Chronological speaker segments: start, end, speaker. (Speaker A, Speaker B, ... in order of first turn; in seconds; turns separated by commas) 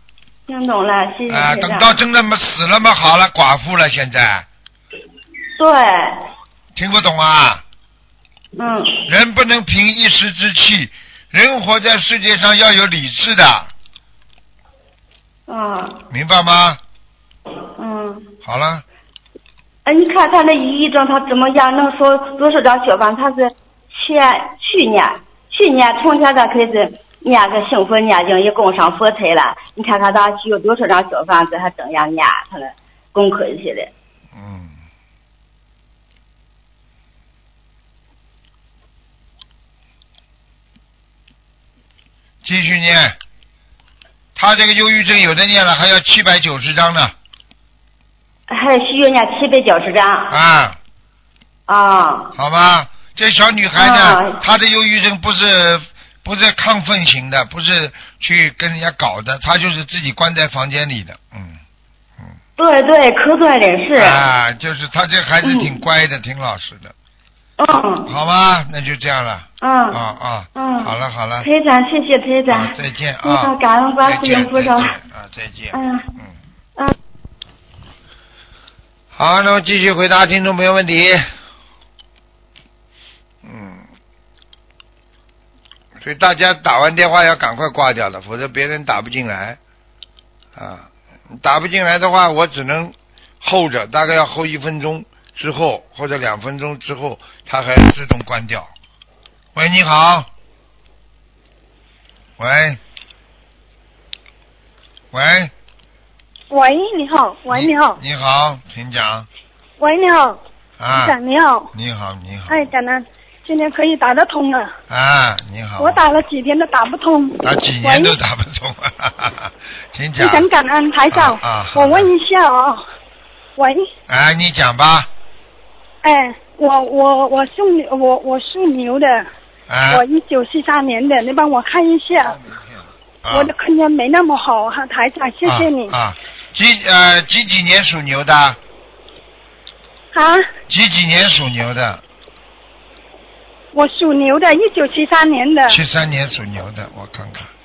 Speaker A: 0.5-1.9, Speaker B: 1.3-4.5, Speaker A: 5.6-6.2, Speaker B: 6.7-7.6, Speaker A: 8.6-9.0, Speaker B: 9.1-13.7, Speaker A: 15.5-16.0, Speaker B: 16.1-16.8, Speaker A: 17.8-18.3, Speaker B: 18.4-18.8, Speaker A: 19.8-33.9, Speaker B: 34.3-34.8, Speaker B: 42.4-43.2, Speaker B: 44.3-47.1, Speaker A: 48.5-50.3, Speaker B: 50.3-50.8, Speaker A: 51.7-52.3, Speaker B: 52.3-61.6, Speaker A: 53.8-54.4, Speaker A: 62.6-64.2, Speaker B: 63.9-66.9, Speaker A: 65.4-65.7, Speaker A: 67.6-68.1, Speaker B: 68.1-71.5, Speaker A: 69.6-70.0, Speaker A: 70.5-74.9, Speaker B: 72.5-76.3, Speaker A: 75.7-76.1, Speaker B: 79.1-81.3, Speaker B: 83.4-83.9, Speaker B: 86.0-89.6, Speaker B: 90.5-98.7, Speaker B: 99.5-100.3, Speaker B: 102.4-102.8, Speaker B: 105.1-105.5, Speaker C: 106.5-108.0, Speaker B: 107.5-109.3, Speaker C: 109.8-110.4, Speaker B: 110.8-111.2, Speaker C: 110.9-111.7, Speaker B: 111.7-112.7, Speaker C: 112.5-114.8, Speaker B: 114.9-116.0, Speaker C: 115.8-118.2, Speaker B: 117.4-120.5, Speaker C: 120.2-122.8, Speaker B: 121.1-122.1, Speaker C: 123.6-123.9, Speaker B: 124.1-125.1, Speaker C: 126.0-129.3, Speaker B: 129.7-130.0, Speaker C: 129.9-132.4, Speaker B: 132.2-133.5, Speaker C: 133.3-135.9, Speaker B: 135.4-138.6, Speaker C: 140.1-140.4, Speaker B: 140.7-142.0, Speaker C: 143.7-145.8, Speaker B: 145.7-147.5